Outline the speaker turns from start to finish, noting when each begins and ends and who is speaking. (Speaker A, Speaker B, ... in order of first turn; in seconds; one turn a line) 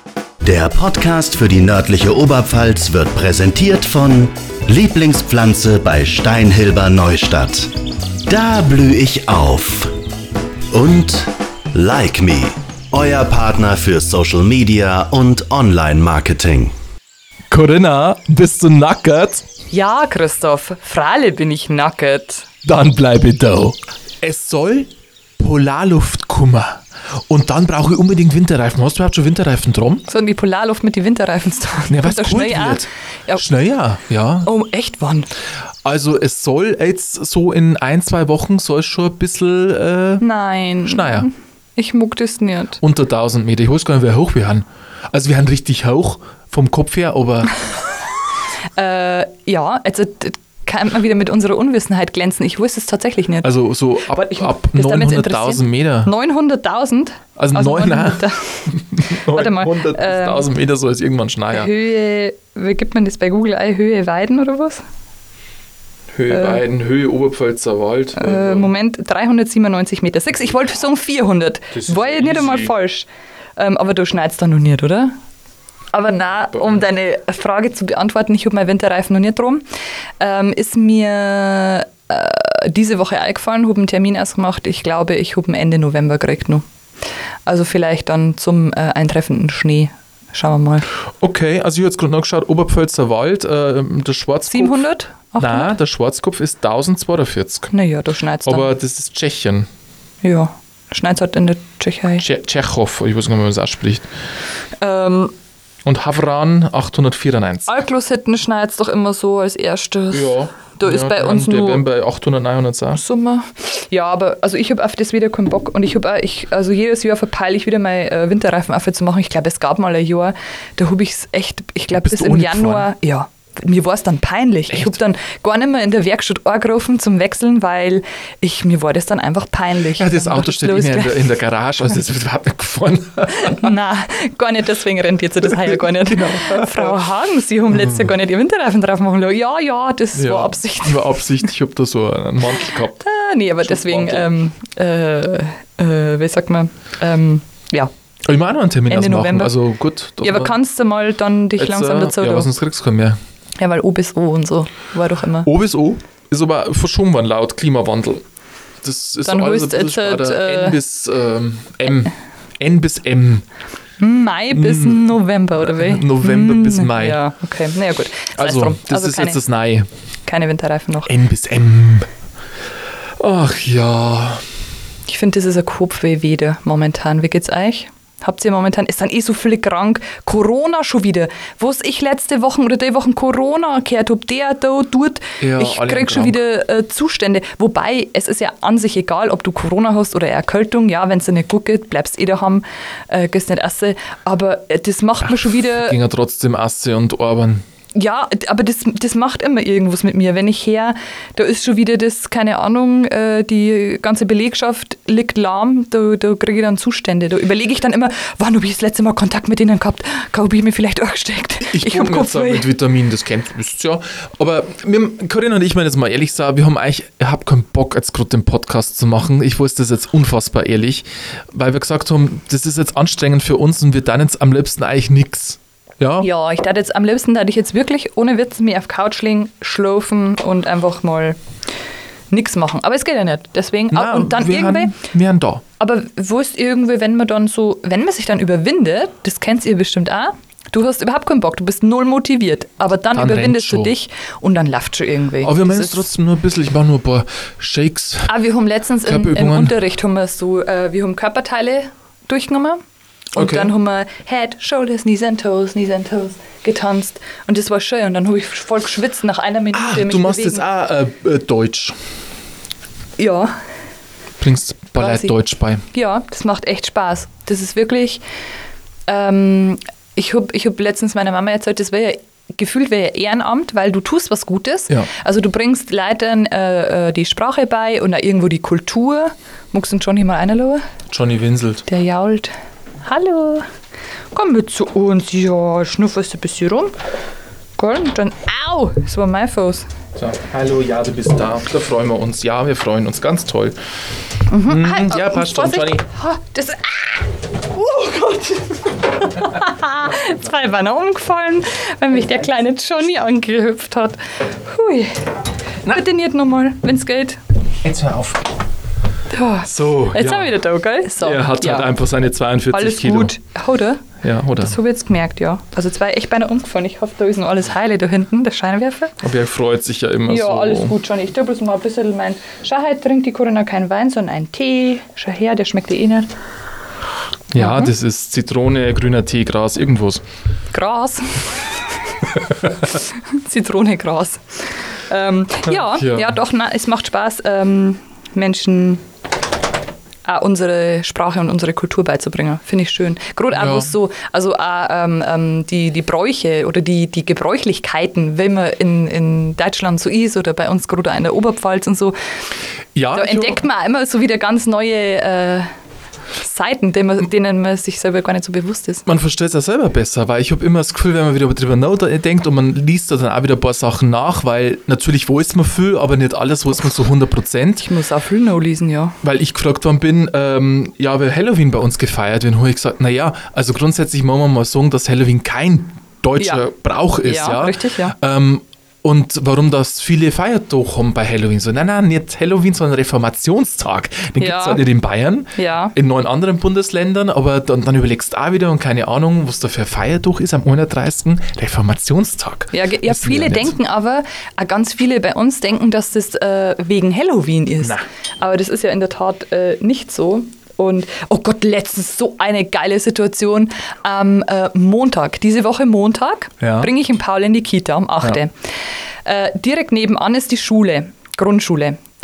Speaker A: 0.4-10.0
Speaker A: 10.7-16.7
Speaker B: 17.5-19.4
Speaker C: 19.7-22.5
Speaker B: 22.6-30.1
Speaker C: 30.1-33.4
Speaker B: 31.9-34.5
Speaker C: 34.5-35.3
Speaker B: 35.8-40.2
Speaker C: 40.2-42.8
Speaker B: 40.8-41.3
Speaker B: 42.8-47.6
Speaker C: 48.8-53.5
Speaker B: 53.4-56.1
Speaker C: 54.0-60.5
Speaker B: 57.4-61.7
Speaker C: 61.5-64.8
Speaker B: 66.1-68.7
Speaker C: 66.3-66.6
Speaker C: 68.2-75.1
Speaker B: 71.7-72.7
Speaker C: 75.9-79.6
Speaker B: 76.5-76.8
Speaker C: 80.2-86.6
Speaker C: 87.5-90.9
Speaker B: 91.2-94.8
Speaker C: 94.5-95.8
Speaker B: 95.4-97.7
Speaker C: 97.7-98.7
Speaker B: 98.5-99.7
Speaker C: 100.2-102.2
Speaker B: 102.2-104.1
Speaker C: 104.8-105.3
Speaker B: 105.8-107.8
Speaker C: 107.7-111.9
Speaker B: 110.1-113.0
Speaker C: 113.0-131.3
Speaker B: 121.9-122.9
Speaker B: 124.7-125.0
Speaker B: 130.0-133.7
Speaker C: 133.3-141.2
Speaker B: 135.4-137.0
Speaker B: 137.7-138.1
Speaker B: 140.1-143.0
Speaker C: 143.0-147.9
Speaker B: 143.6-144.3
Speaker B: 148.3-150.6
Speaker C: 148.9-149.6
Speaker C: 150.2-152.5
Speaker B: 151.6-153.2
Speaker C: 153.6-155.5
Speaker B: 155.4-158.2
Speaker B: 158.8-163.4
Speaker C: 159.3-160.8
Speaker C: 164.0-169.4
Speaker B: 164.5-167.2
Speaker B: 168.4-169.9
Speaker C: 170.3-171.1
Speaker B: 171.1-172.1
Speaker B: 173.2-174.4
Speaker C: 175.1-196.0
Speaker B: 185.4-186.4
Speaker B: 195.5-197.6
Speaker C: 197.9-212.7
Speaker B: 211.6-226.3
Speaker C: 226.2-231.4
Speaker C: 232.3-235.0
Speaker B: 233.9-235.6
Speaker C: 235.8-246.1
Speaker B: 243.1-243.9
Speaker B: 245.4-248.3
Speaker C: 248.3-252.8
Speaker B: 249.0-249.8
Speaker C: 253.3-260.6
Speaker B: 253.3-253.7
Speaker B: 259.7-261.9
Speaker C: 263.2-263.5
Speaker B: 264.4-265.8
Speaker C: 264.9-265.4
Speaker C: 265.9-268.2
Speaker C: 269.1-280.8
Speaker B: 281.1-281.9
Speaker C: 281.9-282.5
Speaker C: 283.0-283.7
Speaker C: 284.3-286.9
Speaker C: 287.8-289.9
Speaker B: 290.2-293.8
Speaker C: 294.5-305.1
Speaker B: 294.6-296.1
Speaker C: 305.9-307.4
Speaker B: 307.8-308.4
Speaker C: 309.3-311.9
Speaker B: 309.6-310.6
Speaker B: 311.2-313.3
Speaker C: 312.7-314.0
Speaker B: 314.2-314.8
Speaker C: 314.6-319.1
Speaker B: 319.2-320.9
Speaker C: 320.3-326.3
Speaker B: 327.5-330.2
Speaker C: 327.6-327.9
Speaker C: 330.7-331.8
Speaker C: 333.1-339.0
Speaker B: 335.6-336.4
Speaker C: 340.2-352.1
Speaker B: 343.5-343.9
Speaker B: 352.9-353.6
Speaker C: 353.1-355.7
Speaker C: 356.4-359.0
Speaker B: 359.1-367.9
Speaker C: 367.8-369.2
Speaker B: 369.2-393.8
Speaker C: 376.4-376.7
Speaker C: 377.2-378.2
Speaker C: 384.4-384.9
Speaker C: 385.6-385.9
Speaker C: 392.7-408.5
Speaker B: 406.6-406.9
Speaker C: 409.3-412.0